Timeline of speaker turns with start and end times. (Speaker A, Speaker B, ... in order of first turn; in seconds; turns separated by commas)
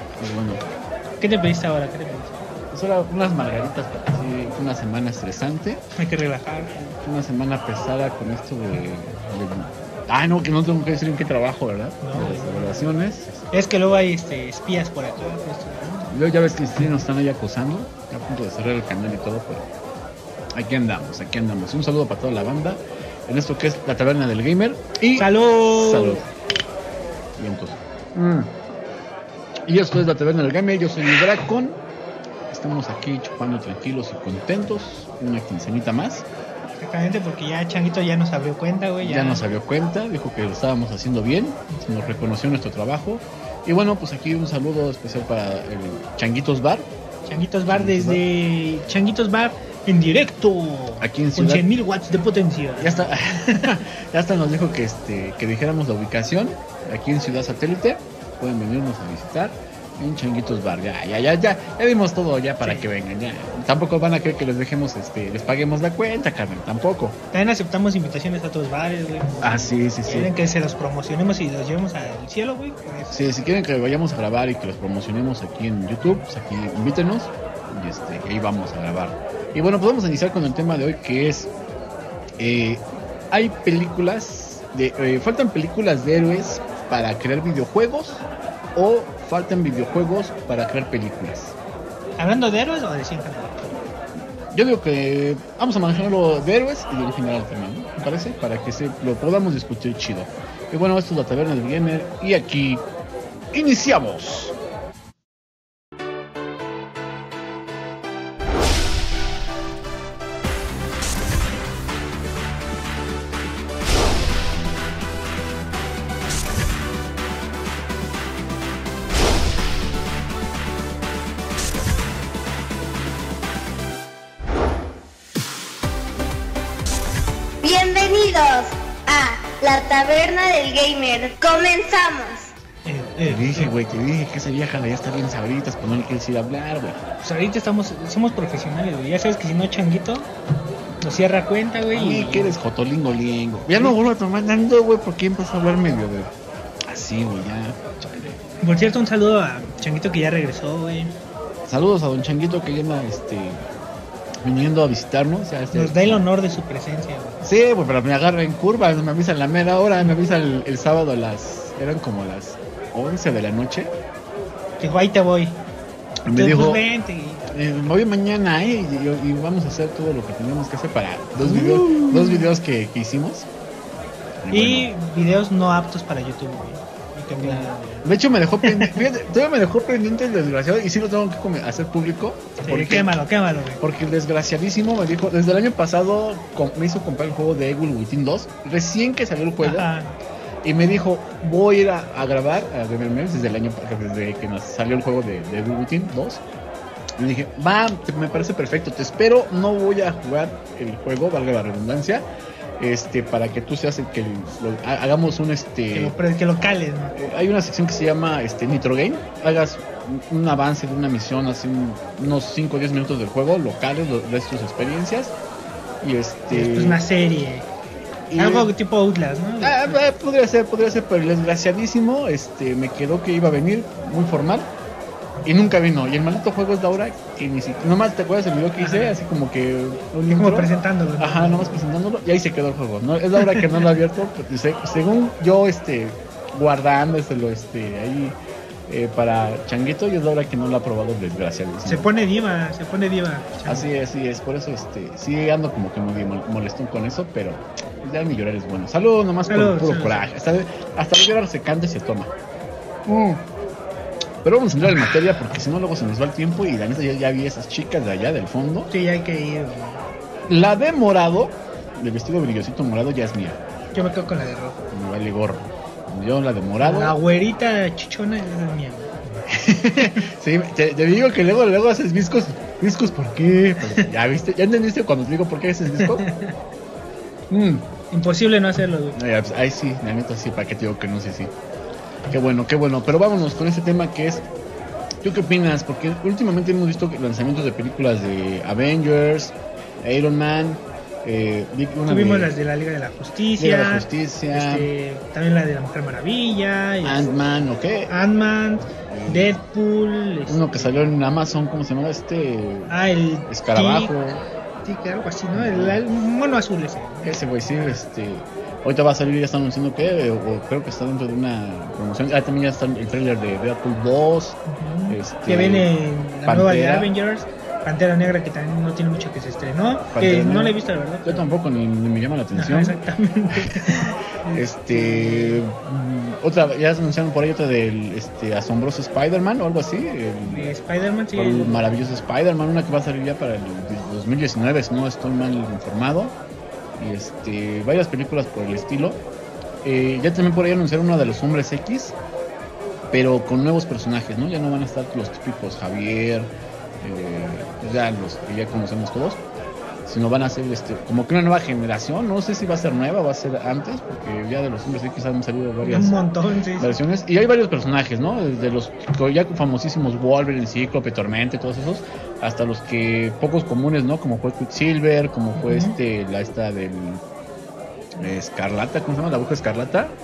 Speaker A: 0.2-0.6, Speaker B: 1.2-2.4, Speaker A: 2.7-5.8, Speaker B: 6.0-6.9, Speaker A: 7.0-13.5, Speaker B: 12.0-16.1, Speaker A: 16.1-19.6, Speaker A: 20.5-26.3, Speaker B: 25.1-26.2, Speaker A: 27.4-28.5, Speaker A: 29.7-31.8, Speaker A: 32.5-36.2, Speaker B: 36.8-39.4, Speaker A: 39.0-46.9, Speaker B: 41.7-42.1, Speaker B: 47.2-53.7, Speaker A: 47.7-48.2, Speaker A: 51.0-51.6, Speaker A: 52.8-67.2, Speaker B: 62.6-62.9, Speaker B: 67.3-73.2, Speaker A: 69.4-70.3, Speaker A: 73.1-81.5, Speaker A: 82.4-91.5, Speaker B: 92.2-93.7, Speaker A: 94.5-102.8, Speaker A: 103.5-104.5, Speaker C: 127.6-132.5, Speaker B: 132.8-133.7, Speaker A: 133.2-137.0, Speaker B: 137.2-140.3, Speaker B: 141.0-142.6, Speaker A: 141.9-146.3, Speaker A: 146.9-148.4, Speaker B: 148.6-151.1, Speaker A: 151.7-153.7, Speaker A: 154.4-156.2, Speaker B: 155.7-157.4, Speaker A: 157.4-163.9, Speaker B: 164.8-165.6, Speaker A: 166.2-166.8, Speaker B: 166.3-167.5, Speaker A: 167.5-173.5, Speaker B: 171.4-172.5, Speaker A: 174.4-174.9, Speaker B: 174.5-178.0, Speaker A: 177.4-183.1, Speaker B: 178.6-179.0, Speaker B: 182.6-183.8, Speaker A: 183.8-189.9, Speaker B: 189.6-190.1, Speaker A: 190.6-196.4, Speaker A: 197.2-202.2, Speaker A: 202.8-206.1, Speaker B: 205.9-207.1, Speaker A: 207.1-215.3, Speaker A: 216.0-217.0, Speaker B: 216.5-217.7, Speaker A: 218.3-218.7, Speaker B: 218.3-220.0, Speaker A: 219.6-224.7, Speaker A: 225.4-242.1, Speaker B: 228.8-229.2, Speaker B: 230.3-231.8, Speaker B: 241.8-243.9, Speaker A: 243.7-252.3, Speaker B: 249.5-250.3, Speaker A: 253.1-253.4, Speaker A: 254.4-258.9, Speaker B: 258.9-260.0, Speaker A: 260.5-263.6, Speaker B: 263.9-264.8, Speaker A: 264.9-267.1, Speaker B: 266.8-269.1, Speaker A: 269.6-276.2, Speaker B: 276.0-276.5, Speaker A: 277.5-277.9, Speaker B: 278.1-279.2, Speaker A: 279.1-281.5, Speaker A: 282.3-284.4, Speaker A: 285.2-292.5, Speaker B: 292.1-297.2, Speaker A: 293.6-294.9, Speaker A: 297.0-298.1, Speaker B: 298.1-301.0, Speaker A: 299.0-299.6, Speaker A: 300.5-302.9, Speaker B: 302.9-304.1, Speaker A: 303.5-304.4, Speaker B: 304.8-308.0, Speaker A: 305.5-306.0, Speaker A: 307.2-315.9, Speaker B: 314.7-321.4, Speaker A: 316.4-317.1, Speaker A: 320.1-323.0, Speaker B: 322.5-325.6, Speaker A: 323.6-324.0, Speaker A: 324.5-330.7, Speaker B: 330.4-331.9, Speaker A: 331.3-336.4, Speaker A: 337.0-339.2, Speaker A: 339.8-342.1, Speaker A: 343.1-346.5, Speaker A: 347.0-349.4, Speaker A: 350.1-356.2, Speaker B: 355.8-357.0, Speaker A: 356.8-367.2, Speaker B: 365.6-365.9, Speaker A: 368.2-370.1